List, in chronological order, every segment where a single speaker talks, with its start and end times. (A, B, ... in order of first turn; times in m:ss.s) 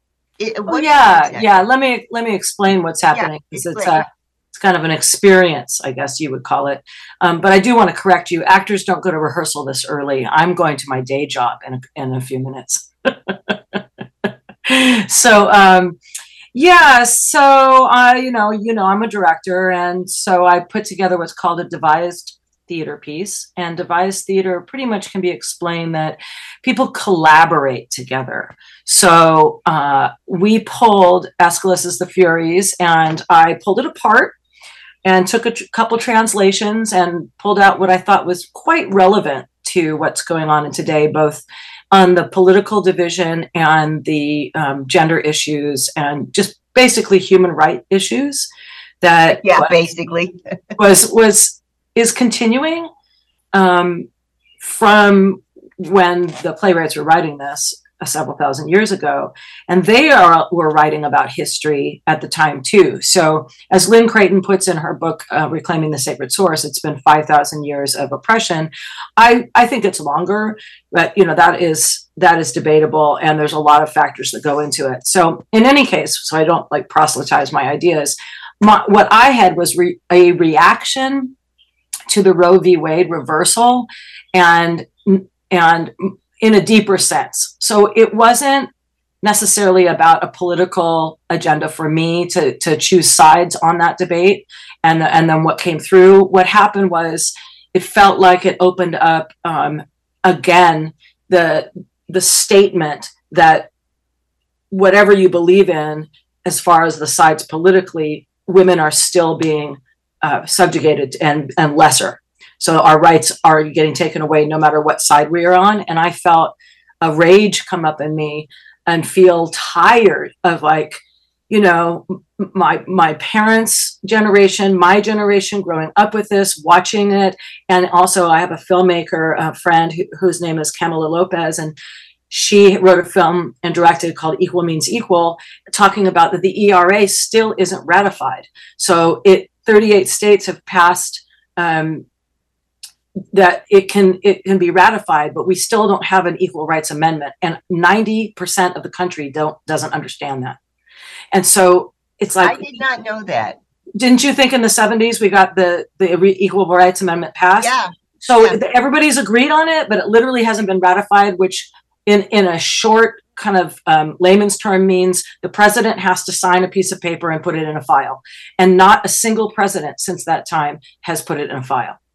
0:00.4-0:01.6 A
0:00.7-0:16.0 B
0:03.1-0:04.1 A
0:16.5-0:34.4 B
0:35.0-0:48.5 B
0:49.0-0:49.7 B
0:49.4-0:50.4 A
0:50.8-0:52.9 B
0:53.5-0:54.1 B
0:54.6-1:21.4 B
1:22.1-1:28.7 B
1:29.2-1:43.7 B
1:44.7-2:11.8 B
2:12.3-2:22.1 B
2:23.3-2:30.6 B
2:31.3-2:32.6 B
2:32.4-2:33.6 A
2:34.0-2:52.0 B
2:37.6-2:38.6 A